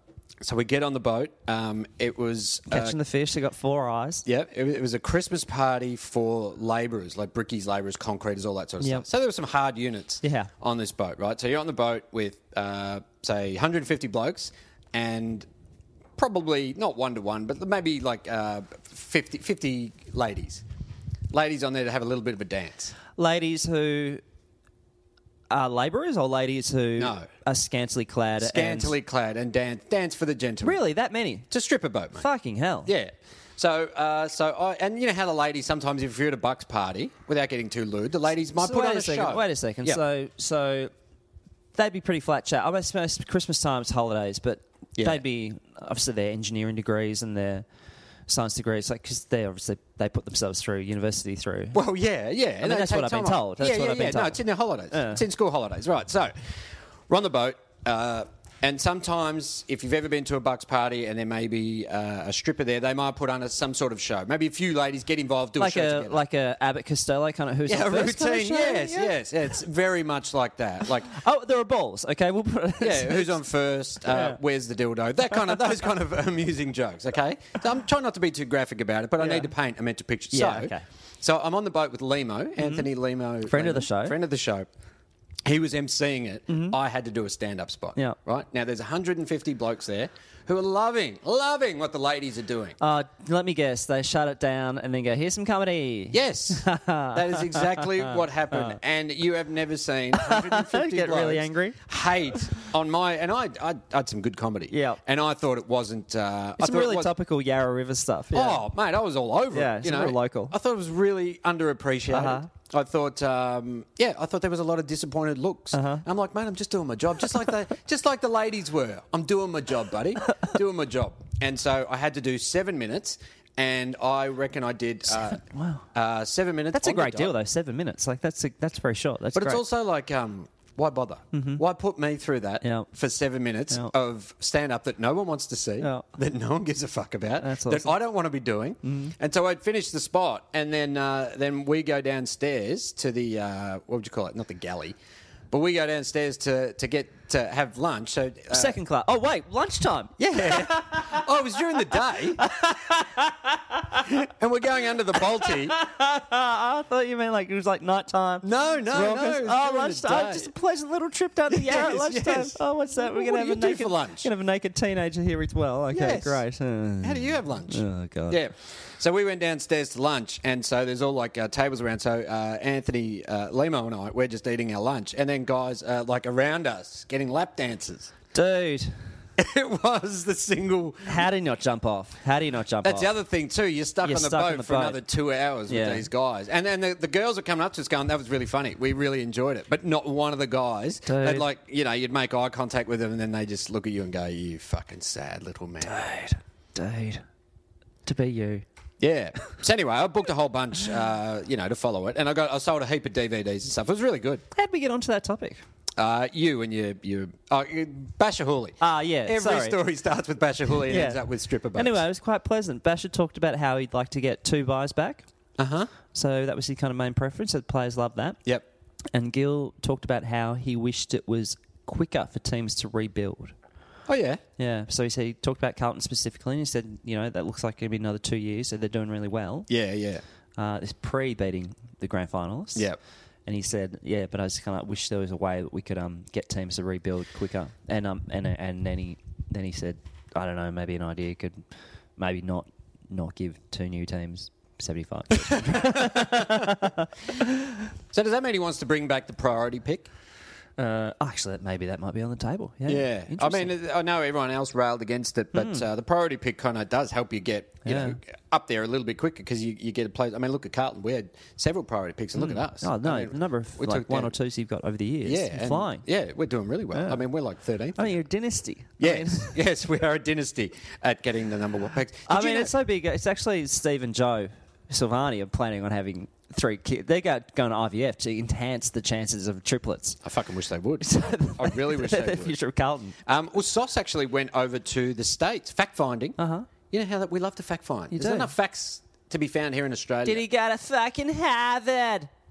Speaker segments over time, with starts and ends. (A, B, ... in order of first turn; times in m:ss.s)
0:00.4-0:02.9 A
0:02.7-0:04.2 B
0:04.2-0:15.4 A
0:10.2-0:10.5 B
0:16.2-0:20.6 A
0:21.3-0:22.9 A
0:23.2-0:24.2 B
0:25.5-0:28.9 B
0:27.0-0:27.3 A
0:28.4-0:30.8 A
0:30.6-0:31.5 B
0:31.5-0:32.2 A
0:32.2-0:32.9 B
0:32.8-0:40.0 A
0:38.6-0:40.9 B
0:41.8-0:47.6 B
0:45.0-0:45.2 A
0:48.3-0:51.8 B
0:51.7-0:56.3 A
0:52.6-0:54.4 B
0:54.9-0:55.2 B
0:57.1-1:06.2 A
1:05.6-1:09.2 B
1:07.7-1:11.1 A
1:11.1-1:13.4 B
1:12.8-1:24.7 A
1:14.1-1:14.4 B
1:19.2-1:19.5 B
1:20.3-1:20.8 B
1:22.6-1:22.9 B
1:23.5-1:24.2 B
1:25.4-1:32.8 A
1:26.5-1:26.8 B
1:32.8-1:38.8 B
1:36.1-1:47.1 A
1:40.2-1:41.8 B
1:44.7-1:45.0 B
1:46.6-1:48.6 B
1:48.3-2:05.4 A
1:49.5-1:50.5 B
1:52.1-1:52.5 B
1:55.7-1:56.0 B
2:05.3-2:05.8 B
2:05.9-2:07.3 A
2:06.7-2:09.6 B
2:09.4-2:25.0 A
2:11.3-2:11.6 B
2:12.6-2:12.9 B
2:15.8-2:16.1 B
2:17.4-2:17.9 B
2:18.8-2:19.1 B
2:25.5-2:28.8 A
2:28.5-2:31.2 B
2:30.2-2:32.5 A
2:31.9-2:34.1 B
2:34.0-2:35.8 A
2:35.1-2:48.4 B
2:38.4-2:40.5 A
2:41.5-2:44.3 A
2:45.9-2:46.4 A
2:47.0-2:58.1 A
2:58.3-2:59.0 B
2:59.4-3:01.3 A
3:01.0-3:03.1 B
3:02.8-3:16.1 A
3:04.0-3:05.0 B
3:05.7-3:06.0 B
3:11.1-3:11.4 B
3:15.8-3:17.2 B
3:18.0-3:18.6 B
3:19.0-3:24.4 A
3:24.5-3:25.6 B
3:26.0-3:32.0 A
3:28.8-3:29.8 B
3:30.9-3:31.2 B
3:31.8-3:35.2 B
3:35.6-3:35.9 A
3:36.1-3:38.4 B
3:39.1-3:43.5 B
3:44.1-3:44.4 A
3:44.6-3:49.7 B
3:49.7-3:50.2 A
3:50.6-3:52.9 B
3:53.4-4:01.6 B
4:02.2-4:07.5 B
4:05.4-4:06.7 A
4:08.1-4:10.1 A
4:10.8-4:13.7 B
4:12.9-4:24.3 A
4:15.5-4:15.8 B
4:17.8-4:18.2 B
4:22.3-4:26.0 B
4:25.2-4:28.2 A
4:26.9-4:27.2 B
4:28.0-4:29.5 B
4:29.0-4:32.7 A
4:32.3-4:40.2 B
4:40.2-4:42.5 A
4:41.0-4:43.2 B
4:43.2-4:46.4 A
4:46.4-4:46.7 B
4:46.9-4:50.4 A
4:48.1-4:48.5 B
4:50.2-4:52.3 B